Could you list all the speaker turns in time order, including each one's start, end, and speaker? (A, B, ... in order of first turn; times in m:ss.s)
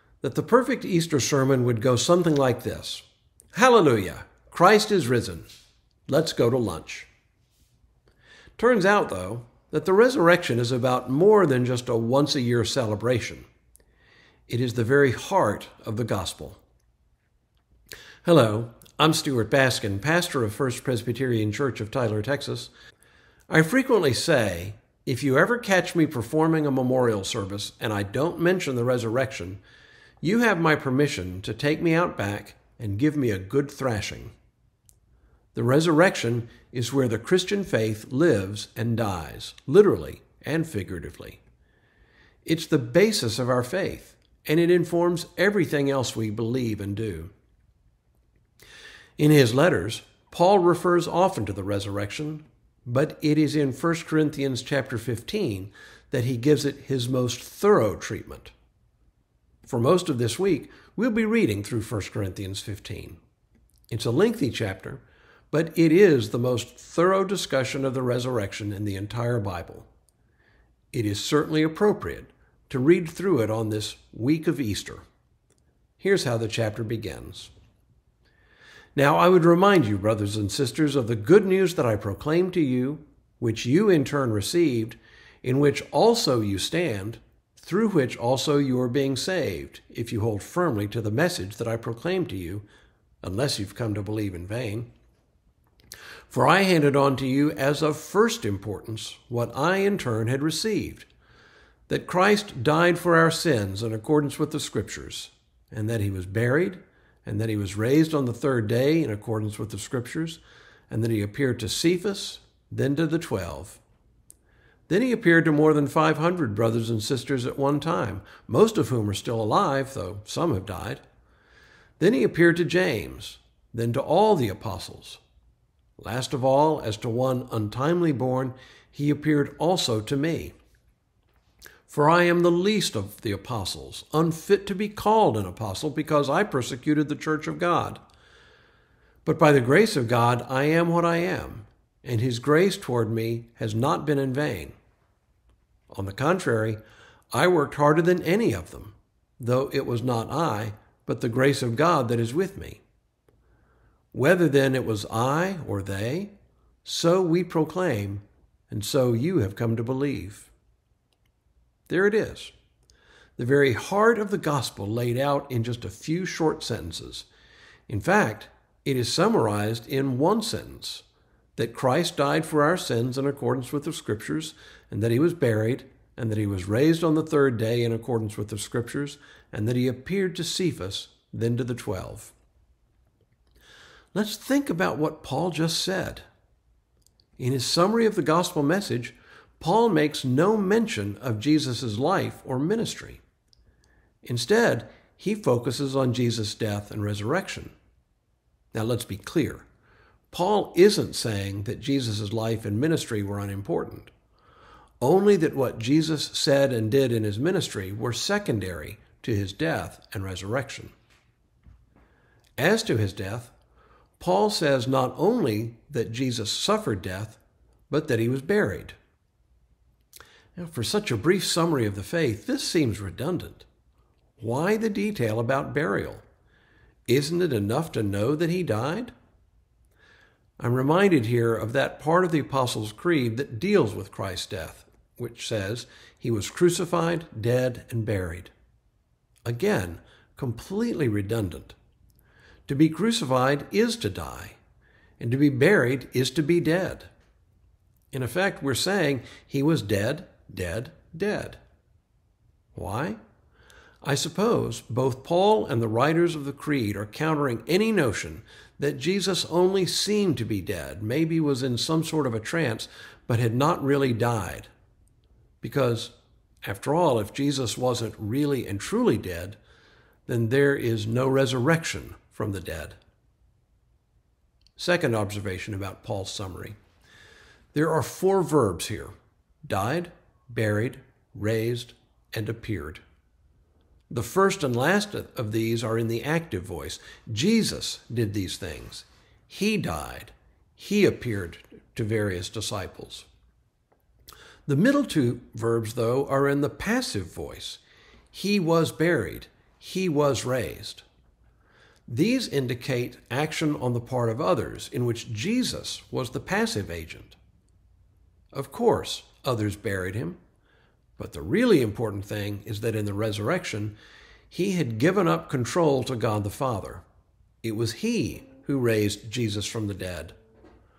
0:00.2-0:05.5 A
0:06.1-0:07.1 A
0:08.6-0:13.5 A
0:14.5-0:16.6 A
0:18.2-0:22.7 A
0:23.5-0:29.6 A
0:30.2-0:34.3 A
0:35.5-0:41.4 A
0:42.4-0:47.3 A
0:49.2-0:58.5 A
0:59.7-1:03.2 A
1:03.9-1:09.9 A
1:10.9-1:15.0 A
1:16.0-1:17.5 A
1:19.0-1:32.7 A
1:33.2-1:34.9 A
1:36.3-1:41.1 A
1:41.9-1:53.8 A
1:54.9-2:01.0 A
2:02.0-2:05.2 A
2:06.0-2:10.6 A
2:11.9-2:18.0 A
2:19.2-2:24.8 A
2:25.9-2:26.8 A
2:27.3-2:32.8 A
2:34.1-2:36.3 A
2:36.8-2:40.5 A
2:41.9-2:42.5 A
2:43.4-2:47.3 A
2:47.9-2:51.0 A
2:51.6-3:02.3 A
3:04.1-3:06.2 A
3:07.4-3:13.2 A
3:14.2-3:17.7 A
3:18.7-3:19.6 A
3:20.3-3:24.1 A
3:25.0-3:30.9 A
3:32.6-3:33.5 A
3:34.2-3:39.0 A
3:40.6-3:43.7 A
3:44.4-3:46.2 A
3:47.1-3:49.1 A
3:50.6-3:58.5 A
3:59.4-4:01.8 A
4:02.7-4:04.6 A
4:05.2-4:07.1 A
4:08.1-4:11.6 A
4:12.8-4:13.2 A
4:14.0-4:24.7 A
4:25.6-4:29.6 A
4:30.3-4:33.0 A
4:34.8-4:36.8 A
4:37.7-4:39.1 A
4:39.6-4:43.0 A
4:44.1-4:53.3 A
4:54.7-4:57.8 A
4:58.3-5:01.0 A
5:02.1-5:07.4 A
5:08.5-5:10.4 A
5:11.2-5:14.0 A
5:14.5-5:17.0 A
5:17.6-5:20.4 A